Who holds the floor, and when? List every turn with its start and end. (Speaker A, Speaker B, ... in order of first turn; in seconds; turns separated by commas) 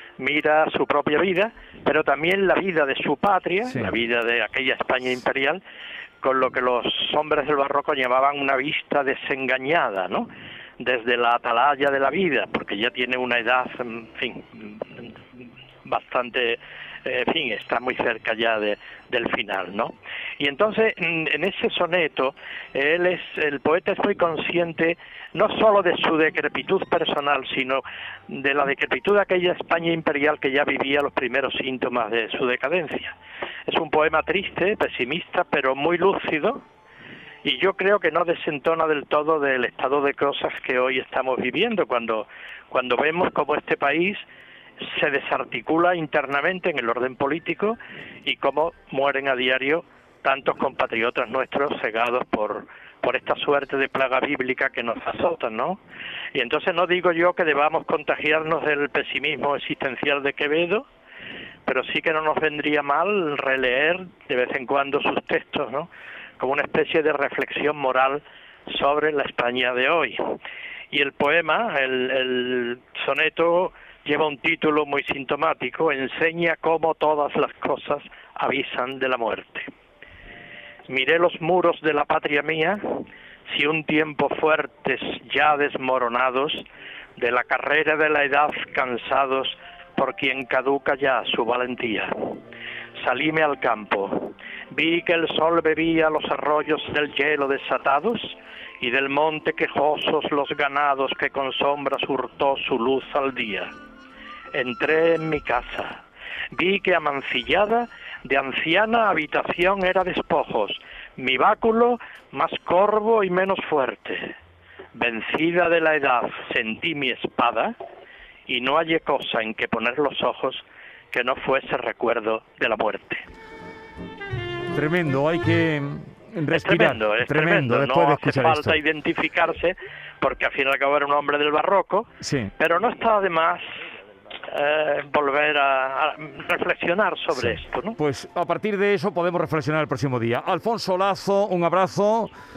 Speaker A: 0.2-5.6, Speaker B: 3.7-3.9, Speaker A: 6.2-10.3, Speaker A: 10.8-33.1, Speaker A: 33.7-36.6, Speaker A: 37.4-44.2, Speaker A: 44.8-55.8, Speaker A: 56.3-60.8, Speaker A: 61.6-70.3, Speaker A: 70.9-79.7, Speaker A: 80.9-86.7, Speaker A: 87.2-92.4, Speaker A: 93.0-103.7, Speaker A: 104.5-106.0, Speaker A: 106.5-114.3, Speaker A: 114.9-117.7, Speaker A: 118.5-123.2, Speaker B: 124.7-128.8, Speaker A: 126.5-133.8, Speaker B: 132.2-132.5, Speaker A: 134.5-138.0, Speaker B: 137.3-142.3